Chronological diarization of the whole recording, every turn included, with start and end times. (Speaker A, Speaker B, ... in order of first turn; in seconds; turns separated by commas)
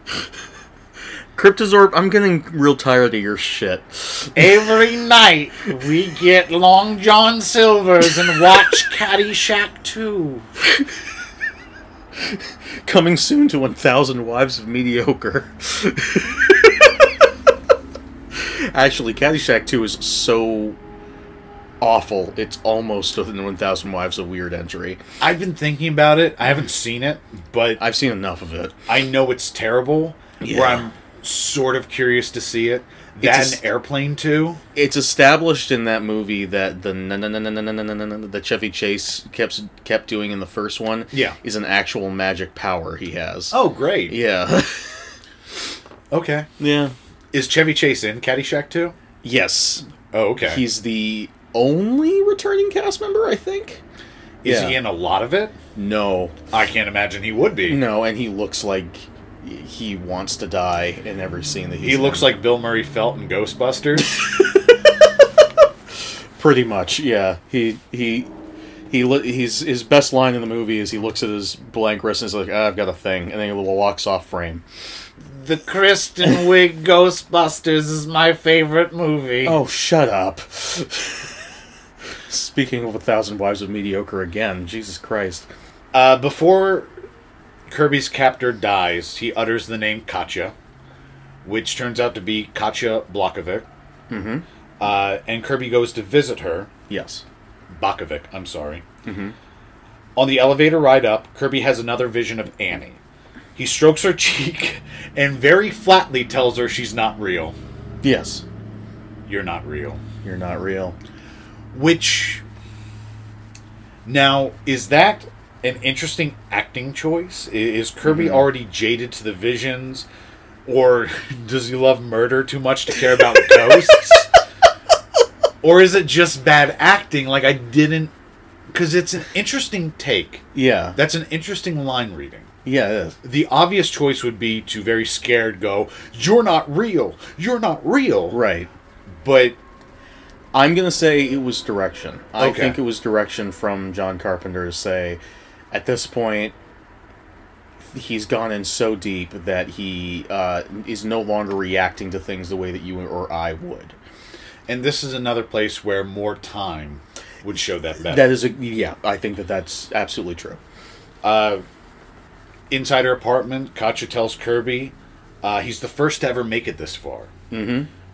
Speaker A: 1.3-4.6, Speaker B: 4.3-10.4, Speaker A: 12.2-16.8, Speaker A: 18.3-20.8, Speaker A: 21.8-25.0, Speaker B: 25.2-27.8, Speaker A: 27.8-28.8, Speaker B: 28.9-34.6, Speaker A: 30.4-30.8, Speaker A: 33.2-33.6, Speaker A: 34.7-43.5, Speaker B: 41.1-41.4, Speaker B: 43.5-44.2, Speaker A: 44.1-45.1, Speaker B: 46.1-46.5, Speaker A: 46.6-46.9, Speaker B: 47.3-48.9, Speaker A: 49.2-49.9, Speaker B: 50.1-50.6, Speaker A: 50.5-53.8, Speaker B: 54.4-55.5, Speaker A: 54.4-54.8, Speaker A: 55.8-56.4, Speaker B: 56.5-57.8, Speaker A: 57.7-62.3, Speaker B: 61.8-64.1, Speaker A: 66.4-68.3, Speaker A: 68.9-74.6, Speaker B: 75.3-79.6, Speaker A: 79.4-81.3, Speaker A: 82.3-85.5, Speaker B: 85.9-86.9, Speaker B: 87.7-90.5, Speaker B: 91.4-93.7, Speaker A: 94.1-94.4, Speaker B: 94.8-96.7, Speaker A: 96.9-97.2, Speaker B: 97.7-98.8, Speaker A: 99.0-99.3, Speaker B: 100.2-103.0, Speaker B: 103.5-107.5, Speaker A: 108.0-108.4, Speaker B: 109.2-110.0, Speaker A: 110.2-111.0, Speaker B: 111.7-112.4, Speaker B: 114.0-120.0, Speaker A: 118.0-118.4, Speaker B: 120.7-124.3, Speaker B: 125.6-128.1, Speaker B: 128.7-132.5, Speaker A: 130.5-131.0, Speaker A: 132.6-133.2, Speaker B: 133.2-138.4, Speaker A: 138.3-138.7, Speaker B: 139.2-139.6, Speaker A: 140.5-145.2, Speaker B: 142.4-142.8, Speaker A: 145.7-146.5, Speaker A: 147.8-153.9, Speaker B: 154.7-158.4, Speaker A: 158.1-160.6, Speaker B: 161.2-161.6, Speaker B: 162.7-167.3, Speaker A: 167.5-167.9